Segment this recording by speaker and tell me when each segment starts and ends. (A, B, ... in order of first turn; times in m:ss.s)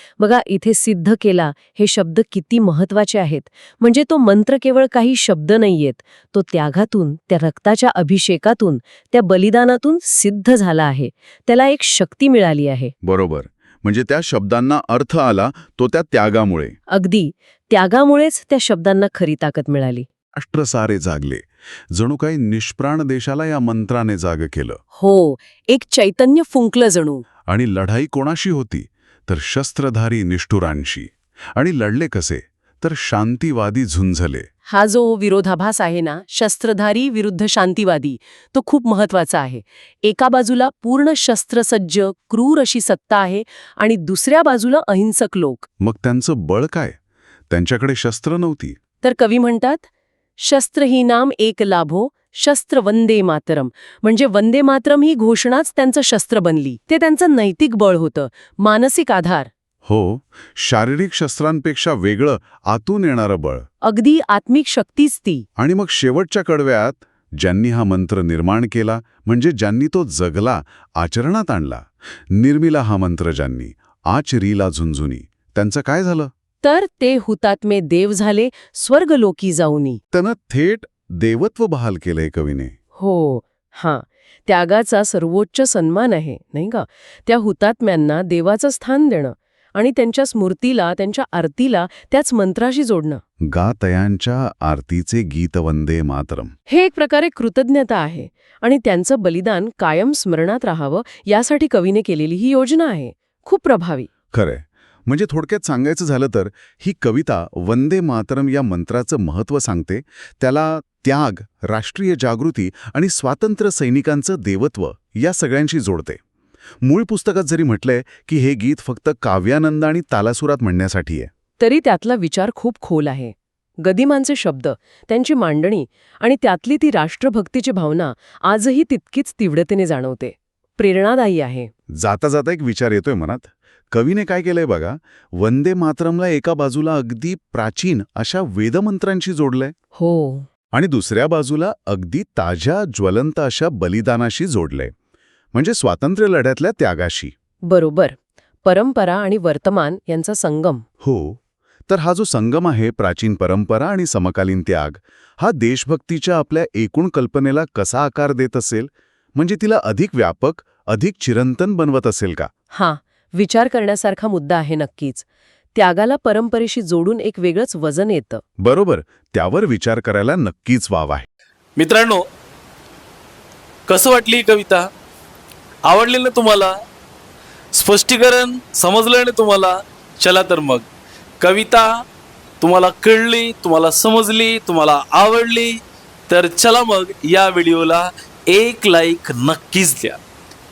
0:00.2-0:12.9 A
0:13.0-0:16.8 B
0:16.9-0:20.1 A
0:20.4-0:24.8 B
0:24.9-0:27.2 A
0:27.5-0:34.5 B
0:34.7-0:45.7 A
0:45.8-0:47.0 B
0:47.5-0:48.8 B
0:49.0-0:59.5 A
0:59.8-1:03.6 B
1:03.8-1:05.5 A
1:05.6-1:16.3 B
1:16.6-1:20.0 A
1:20.1-1:22.7 B
1:23.0-1:33.2 A
1:33.4-1:36.5 B
1:36.7-1:44.1 A
1:44.3-1:56.2 B
1:56.8-2:01.3 B
2:01.6-2:11.7 A
2:12.0-2:19.7 B
2:19.9-2:20.5 A
2:20.7-2:24.9 B
2:25.5-2:27.3 B
2:27.7-2:30.8 A
2:31.0-2:42.5 B
2:42.7-2:48.4 A
2:48.6-2:51.3 B
2:51.8-2:52.2 C
2:53.9-2:54.9 C
2:55.8-2:56.7 C
2:57.7-3:00.8 C
3:01.4-3:02.0 C
3:02.6-3:05.8 C
3:06.3-3:10.2 C